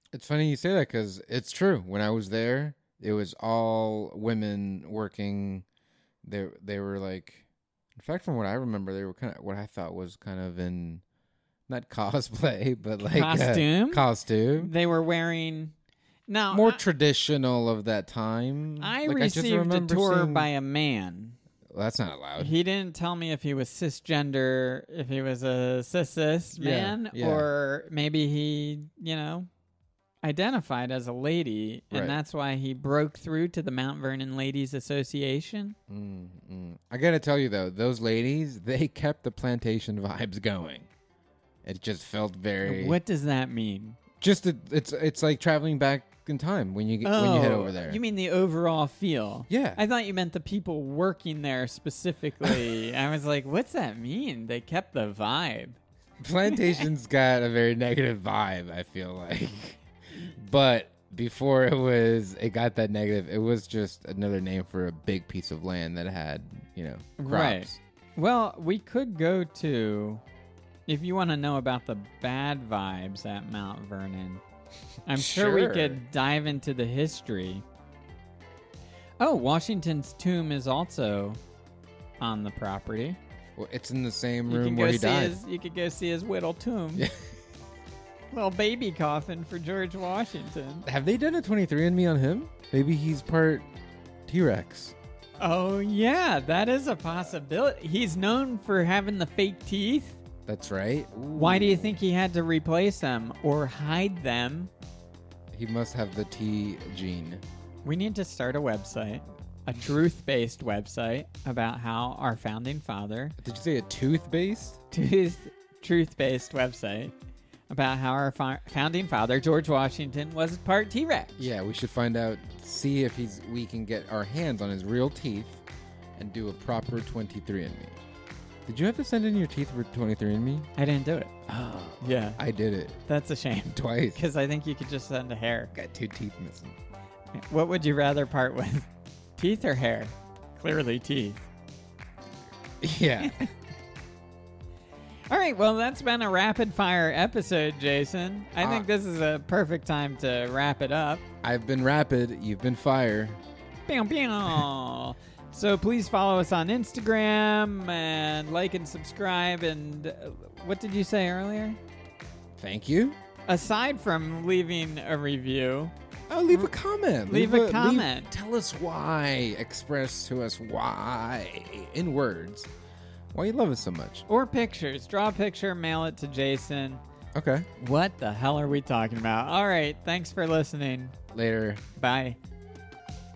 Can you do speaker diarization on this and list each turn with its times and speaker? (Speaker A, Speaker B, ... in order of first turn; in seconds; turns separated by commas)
Speaker A: 0.1-5.6, Speaker A: 6.2-7.4, Speaker A: 8.0-11.0, Speaker A: 11.7-14.7, Speaker B: 13.0-14.1, Speaker B: 14.6-15.7, Speaker B: 16.3-16.8, Speaker A: 16.5-20.5, Speaker B: 18.8-21.4, Speaker A: 21.7-22.5, Speaker B: 22.4-29.5, Speaker A: 26.6-27.5, Speaker B: 30.2-35.8, Speaker A: 31.9-32.2, Speaker A: 35.9-40.9, Speaker A: 41.6-43.0, Speaker B: 42.6-44.0, Speaker A: 44.2-48.0, Speaker B: 47.0-55.8, Speaker A: 49.5-49.8, Speaker A: 56.2-67.8, Speaker B: 56.5-56.8, Speaker B: 67.2-70.2, Speaker B: 70.9-74.4, Speaker B: 75.0-77.6, Speaker A: 75.1-76.0, Speaker B: 79.2-81.4, Speaker B: 82.2-83.2, Speaker A: 83.5-85.4, Speaker B: 84.5-87.1, Speaker A: 87.0-87.2, Speaker B: 88.3-90.9, Speaker A: 90.8-93.6, Speaker A: 94.3-95.0, Speaker B: 95.4-100.2, Speaker A: 100.5-102.0, Speaker B: 101.3-104.7, Speaker A: 105.5-107.4, Speaker B: 107.8-113.3, Speaker A: 113.4-114.8, Speaker B: 114.9-117.1, Speaker B: 117.7-121.5, Speaker A: 121.4-125.6, Speaker A: 126.2-128.0, Speaker A: 128.7-130.7, Speaker B: 130.8-131.3, Speaker A: 131.5-133.0, Speaker B: 132.0-132.4, Speaker B: 133.1-135.7, Speaker A: 133.7-134.2, Speaker A: 135.7-136.8, Speaker B: 137.3-141.4, Speaker A: 142.8-143.5, Speaker B: 143.2-143.5, Speaker B: 145.3-151.2, Speaker A: 148.6-148.9, Speaker A: 151.4-153.4, Speaker B: 153.9-161.8, Speaker A: 162.6-163.2, Speaker B: 163.5-165.9, Speaker A: 166.3-172.7, Speaker B: 167.3-168.3, Speaker A: 173.3-174.2, Speaker B: 174.3-177.0, Speaker A: 177.3-177.7, Speaker B: 177.8-181.1, Speaker A: 181.3-181.8, Speaker B: 181.9-182.4